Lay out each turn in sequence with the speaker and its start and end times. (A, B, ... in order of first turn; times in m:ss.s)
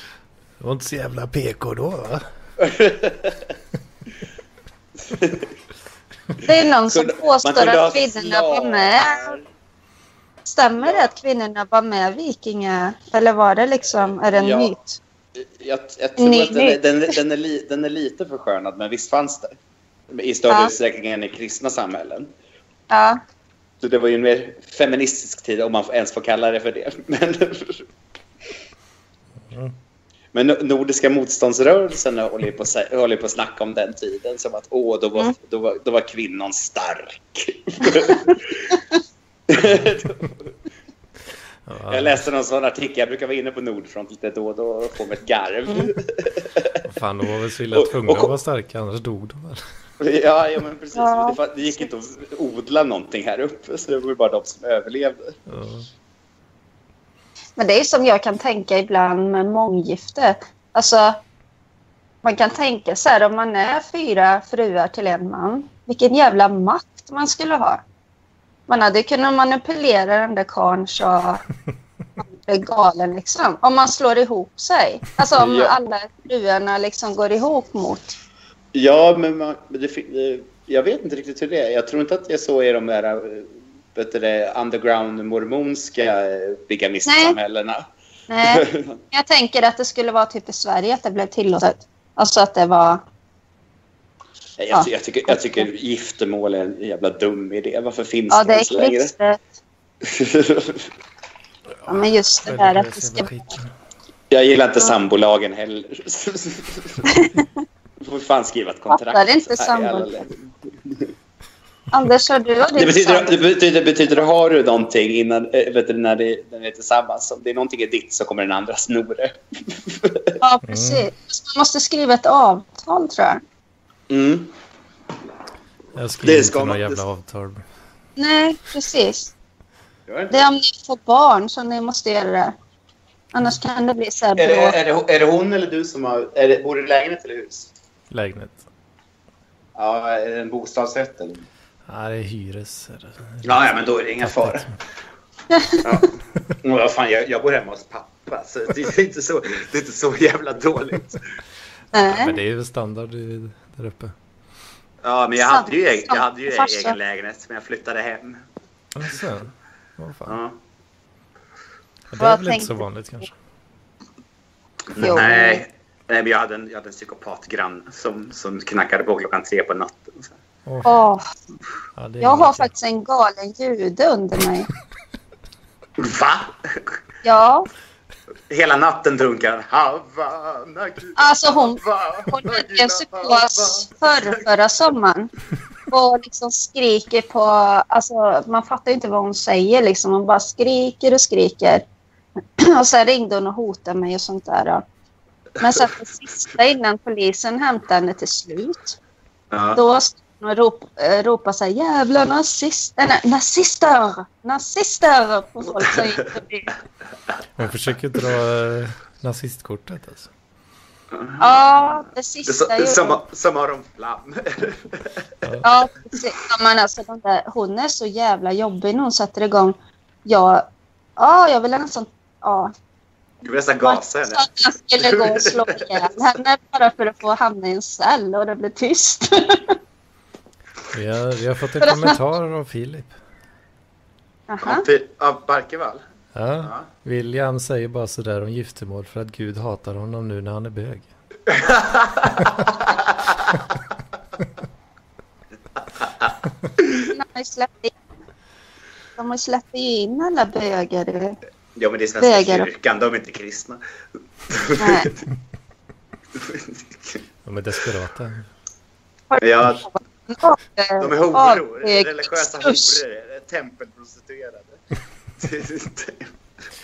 0:00.6-0:02.2 A
0:02.6-0:03.5 B
0:05.1-0:05.5 B
0:06.4-0:09.4 C
0:06.9-0:09.4 B
0:10.4-0:15.0 C
0:10.8-0:11.1 B
0:14.3-0:14.7 B
0:15.4-0:19.5 B
0:16.2-0:17.2 C
0:20.1-0:22.3 B
0:22.9-0:23.2 C
0:23.8-0:27.8 B
0:30.3-0:38.8 B
0:39.5-0:40.5 B
0:41.7-0:42.2 A
0:41.9-0:46.8 B
0:46.8-0:49.6 A
0:47.7-0:48.3 B
0:50.0-0:55.4 B
0:51.0-0:51.4 C
0:55.5-0:55.9 A
0:57.6-1:01.2 C
1:02.2-1:07.8 C
1:08.7-1:11.4 C
1:12.2-1:18.2 C
1:15.3-1:15.8 B
1:18.7-1:27.8 B
1:27.1-1:27.4 C
1:28.3-1:33.0 C
1:28.4-1:29.0 B
1:34.6-1:39.1 B
1:34.7-1:35.7 C
1:38.3-1:39.4 C
1:40.0-1:40.9 B
1:41.8-1:43.7 A
1:41.9-1:43.3 C
1:44.3-1:47.1 B
1:47.0-1:47.5 C
1:48.0-1:51.1 B
1:48.9-1:50.2 C
1:51.9-1:53.4 C
1:52.8-2:00.4 B
2:00.4-2:03.4 C
2:00.6-2:01.1 A
2:04.1-2:04.5 B
2:06.0-2:07.6 A
2:06.2-2:07.0 B
2:08.2-2:09.3 C
2:10.1-2:10.4 B
2:10.3-2:12.5 C
2:13.3-2:14.8 C
2:14.4-2:17.7 B
2:18.1-2:18.6 A
2:19.8-2:21.4 B
2:21.9-2:23.6 A
2:23.4-2:24.7 B
2:24.2-2:24.7 A
2:25.5-2:26.0 C
2:25.8-2:31.2 B
2:31.9-2:32.4 C
2:32.0-2:34.1 A
2:35.0-2:38.4 B
2:35.4-2:37.0 C
2:39.0-2:40.4 A
2:40.3-2:40.6 B
2:42.1-2:43.3 A
2:42.2-2:42.8 C
2:44.9-2:50.3 B
2:45.0-2:45.6 C
2:50.7-2:51.0 A
2:50.8-2:51.2 C
2:52.0-2:52.7 A
2:52.2-2:54.7 C
2:56.0-2:57.0 B
2:57.2-2:57.7 C
2:58.5-3:04.5 B
3:01.2-3:05.3 C
3:05.9-3:11.8 C
3:12.6-3:14.8 C
3:15.6-3:15.9 B
3:15.6-3:19.0 C
3:19.5-3:19.8 B
3:19.8-3:26.7 C
3:27.6-3:30.3 A
3:31.1-3:35.3 B
3:31.4-3:33.2 C
3:35.4-3:35.7 A
3:35.6-3:42.7 C
3:43.4-3:46.1 B
3:43.8-3:49.8 C
3:50.9-3:53.2 A
3:51.8-3:52.2 C
3:54.5-3:54.9 C
3:54.6-3:56.0 B
3:56.4-4:01.1 A
4:01.5-4:03.6 B
4:02.3-4:02.7 A
4:06.0-4:07.0 B
4:06.9-4:07.9 C
4:09.2-4:11.4 C
4:11.8-4:13.8 B
4:12.2-4:12.7 C
4:14.5-4:15.2 B
4:14.8-4:15.1 C
4:16.4-4:17.2 B
4:17.4-4:18.5 A
4:19.3-4:23.0 C
4:19.4-4:19.9 B
4:21.0-4:24.8 B
4:25.4-4:26.3 B